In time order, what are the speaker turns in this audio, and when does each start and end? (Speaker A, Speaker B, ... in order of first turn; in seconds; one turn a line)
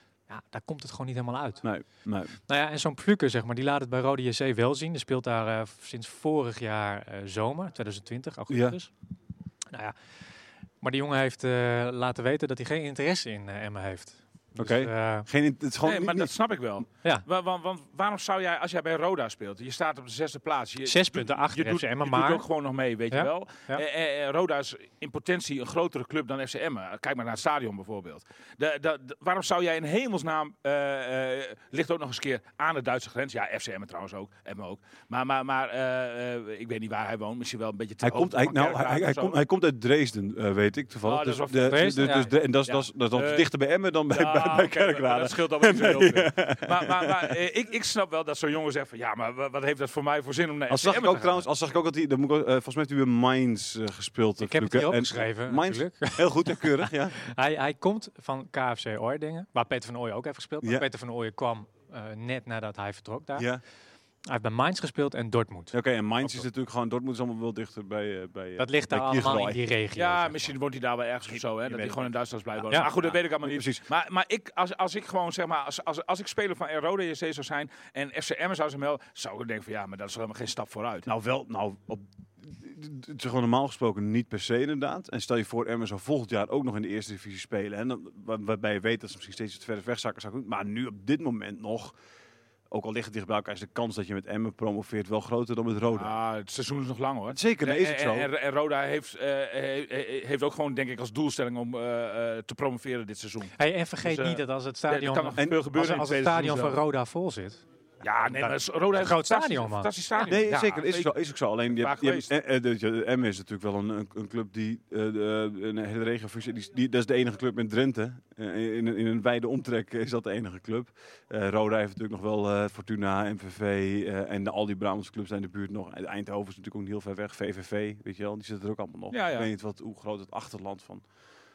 Speaker A: 0.3-1.7
Speaker B: 1.6-2.4
Speaker A: 2.5-8.9
Speaker B: 8.5-8.8
Speaker A: 10.8-15.3
Speaker B: 14.6-16.3
Speaker C: 15.8-39.4
Speaker A: 20.9-22.4
Speaker A: 23.1-23.8
Speaker B: 38.0-47.4
Speaker C: 41.0-43.5
Speaker A: 41.7-42.3
Speaker C: 44.1-51.5
Speaker B: 50.7-57.2
Speaker A: 54.4-63.5
Speaker A: 64.3-65.8
Speaker B: 65.7-69.6
Speaker A: 68.6-70.5
Speaker C: 70.0-81.1
Speaker B: 71.7-72.1
Speaker B: 72.9-73.8
Speaker B: 81.0-92.0
Speaker B: 92.7-96.1
Speaker C: 96.0-106.8
Speaker B: 97.3-98.3
Speaker A: 103.6-107.6
Speaker B: 105.4-105.6
Speaker C: 108.0-111.1
Speaker A: 108.3-110.3
Speaker B: 110.3-131.0
Speaker C: 111.8-112.3
Speaker C: 129.1-129.5